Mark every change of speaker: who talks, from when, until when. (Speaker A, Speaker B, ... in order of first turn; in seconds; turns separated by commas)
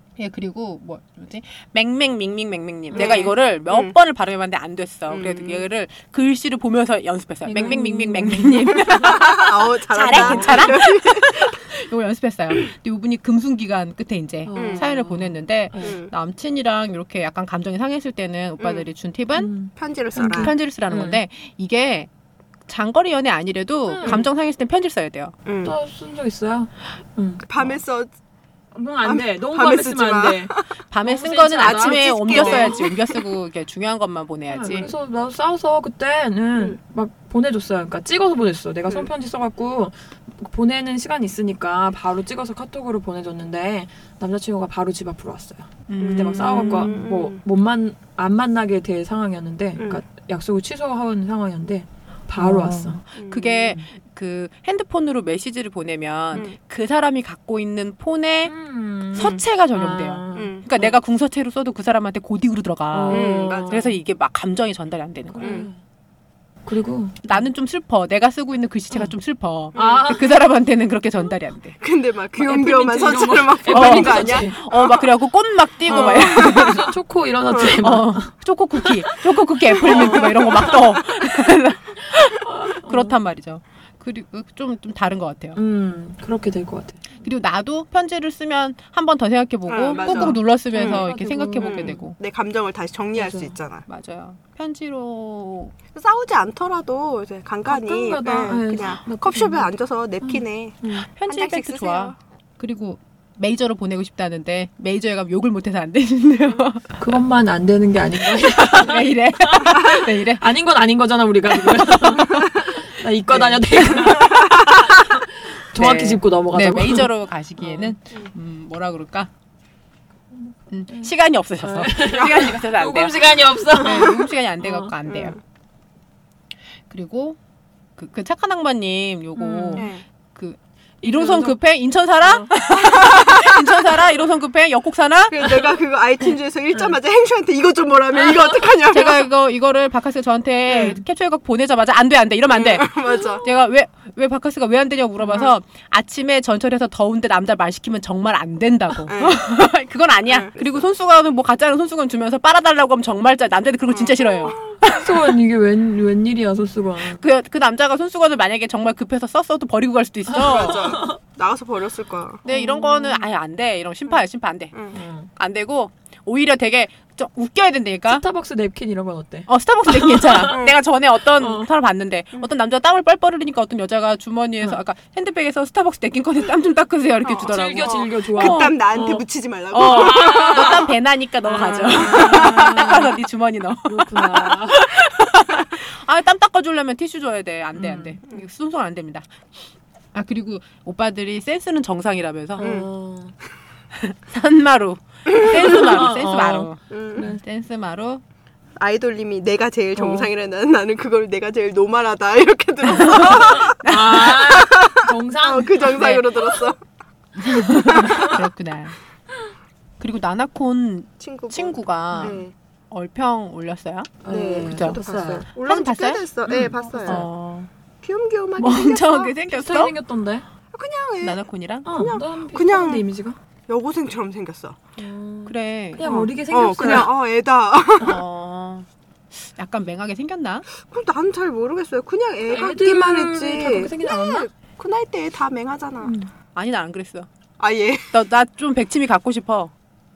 Speaker A: 0.2-19.5, Speaker B: 2.9-3.4, Speaker C: 2.9-3.9, Speaker C: 5.1-5.7, Speaker B: 7.5-9.2, Speaker C: 8.8-11.6, Speaker B: 10.1-10.7, Speaker B: 14.5-16.0, Speaker C: 14.6-14.9, Speaker C: 15.8-16.1, Speaker C: 18.6-18.9, Speaker B: 19.4-21.2, Speaker C: 19.8-20.5, Speaker A: 20.4-22.1, Speaker A: 22.7-25.3, Speaker B: 23.9-24.2, Speaker C: 24.0-24.3, Speaker C: 25.4-25.8, Speaker B: 25.6-27.5, Speaker C: 27.5-28.1, Speaker B: 28.8-30.5, Speaker C: 29.0-30.7, Speaker A: 30.9-34.9, Speaker B: 31.0-32.9, Speaker C: 31.6-33.3, Speaker B: 34.5-53.0, Speaker A: 45.9-47.0, Speaker C: 46.0-47.4, Speaker C: 49.8-50.0, Speaker A: 52.4-58.5, Speaker C: 53.2-53.8, Speaker B: 58.5-60.9, Speaker A: 59.1-65.6, Speaker C: 60.4-60.7, Speaker B: 62.9-64.0, Speaker C: 63.1-63.8, Speaker B: 65.3-65.8, Speaker C: 65.4-65.7, Speaker B: 66.7-67.5, Speaker A: 67.2-71.8, Speaker C: 69.7-70.2, Speaker B: 69.8-70.4, Speaker C: 71.8-75.1, Speaker B: 72.4-74.6, Speaker A: 73.7-76.9, Speaker C: 75.9-76.8, Speaker B: 75.9-78.3, Speaker C: 77.5-77.8, Speaker A: 77.8-85.6, Speaker B: 78.8-79.1, Speaker C: 79.7-81.0, Speaker B: 79.8-81.0, Speaker B: 82.0-83.2, Speaker B: 85.5-87.1, Speaker A: 87.2-92.2, Speaker C: 89.7-91.1, Speaker B: 89.9-92.0, Speaker C: 91.6-93.8, Speaker B: 93.2-93.5, Speaker A: 93.9-95.7, Speaker C: 95.9-102.2, Speaker B: 97.7-101.1, Speaker A: 101.2-106.9, Speaker B: 107.0-117.9, Speaker A: 108.5-110.5, Speaker A: 111.6-112.4, Speaker A: 113.3-114.3, Speaker A: 115.8-119.3, Speaker B: 120.3-124.9, Speaker A: 120.7-125.4, Speaker C: 123.8-124.2, Speaker C: 125.1-125.4, Speaker A: 126.9-127.4, Speaker A: 128.0-135.5, Speaker B: 129.4-129.9, Speaker C: 129.8-130.0, Speaker B: 131.0-131.6, Speaker B: 132.2-132.5, Speaker C: 132.8-133.7, Speaker C: 135.3-139.3, Speaker A: 138.8-155.3, Speaker B: 140.7-141.0, Speaker C: 142.5-143.5, Speaker B: 145.2-145.5, Speaker C: 149.1-149.4, Speaker C: 150.3-150.9, Speaker C: 153.9-154.6, Speaker B: 154.9-157.2, Speaker A: 157.2-161.0, Speaker B: 160.3-161.2, Speaker C: 160.3-162.4, Speaker A: 162.4-168.2, Speaker B: 162.5-163.3, Speaker C: 164.7-165.0, Speaker B: 164.9-165.3, Speaker B: 168.1-170.7, Speaker A: 169.5-179.2, Speaker C: 170.5-170.8, Speaker B: 171.4-171.7, Speaker C: 177.2-180.9, Speaker B: 177.4-180.9, Speaker A: 179.7-189.3, Speaker B: 181.5-183.1, Speaker C: 181.6-182.8, Speaker B: 183.9-184.9, Speaker B: 187.8-188.2, Speaker A: 190.1-192.7, Speaker B: 192.6-193.3, Speaker C: 192.6-192.9, Speaker A: 193.9-198.2, Speaker C: 195.3-196.1, Speaker B: 195.5-197.4, Speaker C: 196.9-197.3, Speaker C: 198.8-206.8, Speaker B: 200.0-200.3, Speaker A: 202.9-204.4, Speaker B: 203.2-206.0, Speaker A: 205.8-206.3, Speaker A: 207.4-209.0, Speaker B: 207.5-208.4, Speaker C: 208.0-208.3, Speaker A: 210.0-212.4, Speaker C: 211.2-212.5, Speaker B: 212.1-212.4, Speaker A: 212.9-215.0, Speaker B: 214.2-215.5, Speaker C: 214.3-217.3, Speaker A: 215.6-217.7, Speaker B: 216.5-217.3, Speaker C: 218.0-219.3, Speaker A: 218.6-219.9, Speaker B: 219.5-220.4, Speaker C: 220.7-223.1, Speaker A: 221.2-221.9, Speaker B: 221.8-223.4, Speaker C: 223.7-224.8, Speaker B: 225.0-227.1, Speaker A: 225.5-226.0, Speaker C: 226.0-228.2, Speaker A: 228.0-228.9, Speaker A: 229.4-230.7, Speaker C: 230.8-236.1, Speaker B: 232.5-234.5, Speaker B: 236.0-236.3, Speaker A: 236.6-237.3, Speaker C: 237.6-238.1, Speaker A: 238.1-239.7